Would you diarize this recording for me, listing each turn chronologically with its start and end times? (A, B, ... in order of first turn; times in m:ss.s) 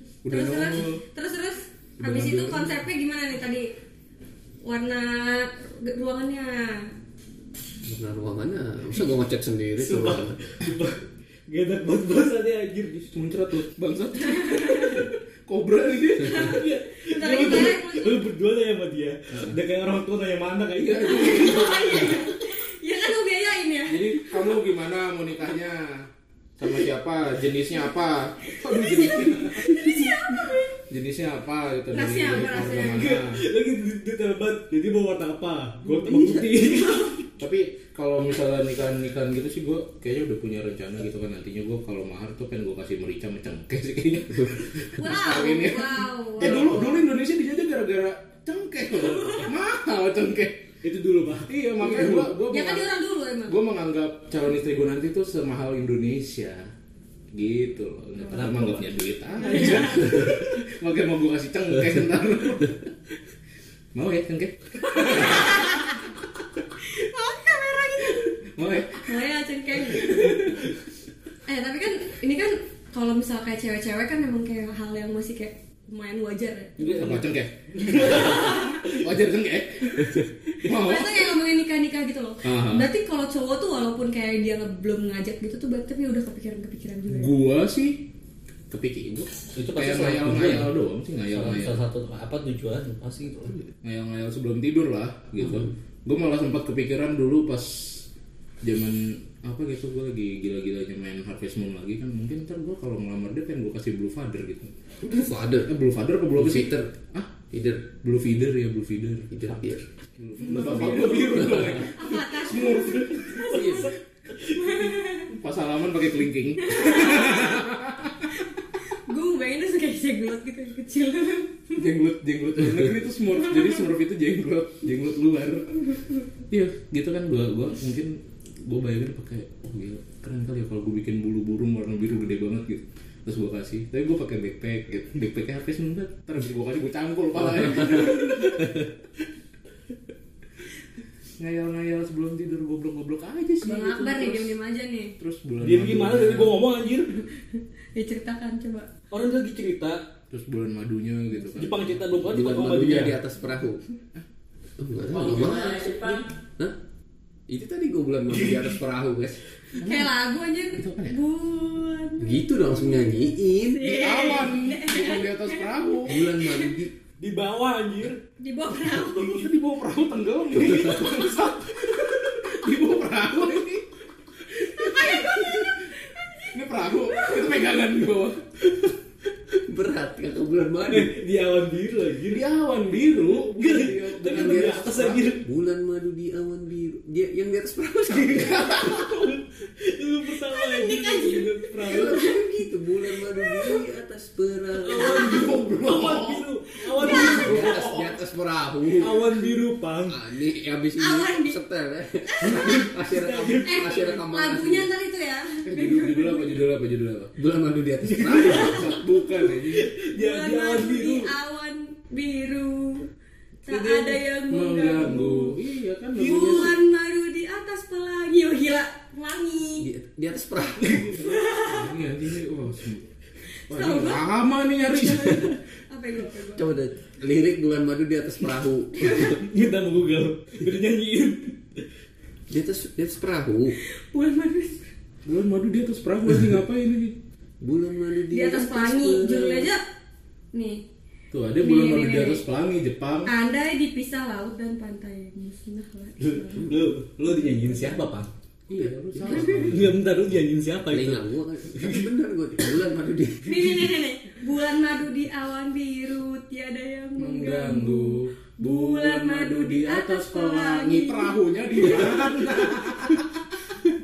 0:00.2-0:01.0 A
0:00.3-0:03.7 B
0:02.0-0:02.7 A
0:04.6-0:06.9 B
0:07.8-0:10.4 C
0:09.8-0:13.1 D
0:13.1-0:16.6 A
0:14.2-0:15.1 B
0:16.2-0:18.2 B
0:16.3-0:22.2 D
0:20.8-0:22.2 A
0:21.0-0:24.3 B
0:23.9-0:29.9 A
0:28.6-0:30.8 B
0:30.9-0:33.4 A
0:31.9-0:33.0 B
0:32.7-0:37.2 D
0:37.4-0:50.7 A
0:45.0-0:47.0 B
0:50.8-0:52.2 D
0:51.5-0:52.9 A
0:52.0-0:53.6 B
0:53.5-0:56.7 A
0:57.3-1:02.9 A
0:58.2-0:58.9 D
0:59.4-1:00.2 B
0:59.4-1:00.3 D
1:03.9-1:05.8 A
1:05.1-1:05.9 B
1:06.8-1:10.4 B
1:08.4-1:09.2 A
1:09.8-1:10.7 A
1:11.5-1:17.1 B
1:16.8-1:21.4 A
1:16.8-1:17.2 D
1:17.8-1:18.9 D
1:18.0-1:18.9 B
1:20.6-1:27.4 B
1:22.4-1:22.9 A
1:27.1-1:28.0 A
1:28.7-1:31.8 A
1:29.6-1:30.8 D
1:31.3-1:33.6 D
1:33.8-1:38.1 A
1:38.6-1:44.7 A
1:45.0-1:45.7 C
1:45.7-1:47.3 A
1:46.4-1:46.9 C
1:47.5-1:47.9 C
1:47.9-1:49.5 A
1:49.3-1:49.8 C
1:50.2-1:53.6 A
1:50.4-1:51.9 D
1:50.4-1:53.9 B
1:50.6-1:51.6 C
1:52.6-1:54.9 D
1:53.5-1:53.8 C
1:54.5-1:55.3 B
1:55.2-1:58.5 A
1:56.6-1:57.6 B
1:58.4-2:01.8 B
2:01.7-2:05.8 A
2:06.5-2:18.8 A
2:21.4-2:24.6 A
2:23.6-2:25.2 B
2:25.2-2:26.6 A
2:25.6-2:27.2 D
2:28.0-2:28.9 B
2:29.1-2:30.0 D
2:30.3-2:32.0 A
2:31.6-2:33.2 D
2:32.3-2:33.8 C
2:34.8-2:36.0 C
2:35.2-2:36.2 A
2:35.2-2:36.2 D
2:37.5-2:39.4 C
2:38.3-2:38.8 D
2:39.8-2:40.1 A
2:39.8-2:42.5 B
2:40.8-2:41.2 A
2:42.2-2:43.9 C
2:43.6-2:45.7 B
2:43.8-2:46.3 A
2:46.0-2:46.9 C
2:46.2-2:46.7 B
2:47.2-2:48.2 D
2:48.4-2:49.4 B
2:48.9-2:49.5 D
2:49.2-2:53.9 A
2:54.4-2:55.8 A
2:54.7-2:57.6 B
2:56.5-2:58.6 A
2:59.6-3:01.2 C
3:00.9-3:02.4 D
3:02.3-3:05.3 A
3:03.5-3:05.4 D
3:05.4-3:09.0 C
3:08.1-3:12.4 D
3:08.7-3:09.0 A
3:10.5-3:12.4 B
3:11.8-3:15.3 C
3:13.3-3:13.8 B
3:14.8-3:18.0 D
3:15.0-3:15.5 B
3:15.1-3:16.5 A
3:16.8-3:17.6 B
3:17.0-3:19.3 C
3:17.2-3:18.2 A
3:18.9-3:20.2 D
3:20.1-3:24.9 C
3:21.0-3:21.6 B
3:22.3-3:22.8 B
3:22.4-3:24.2 D
3:23.6-3:26.6 B
3:25.7-3:27.3 A
3:27.4-3:28.8 C
3:28.0-3:29.0 D
3:28.4-3:29.9 A
3:29.7-3:31.3 D
3:30.1-3:33.1 B
3:33.7-3:35.6 B
3:34.5-3:36.8 A
3:36.2-3:36.7 D
3:36.2-3:39.9 B
3:39.8-3:41.2 C
3:40.8-3:41.3 D
3:41.1-3:43.1 A
3:41.2-3:41.9 B
3:43.7-3:44.3 B
3:43.7-3:45.6 A
3:44.9-3:46.7 B
3:46.6-3:49.4 C
3:49.1-3:51.8 D
3:52.5-3:53.8 C
3:53.8-3:54.9 B
3:55.2-3:57.2 A
3:57.6-3:59.7 C
3:58.3-3:59.8 B
4:00.5-4:00.8 B
4:01.3-4:03.3 A
4:01.6-4:02.4 B
4:03.3-4:06.8 B
4:06.2-4:08.3 D
4:07.4-4:07.9 B
4:08.7-4:10.0 A
4:08.7-4:09.5 C
4:09.3-4:09.7 B
4:09.5-4:12.1 D
4:10.9-4:13.9 C
4:13.4-4:22.2 B
4:17.2-4:23.5 A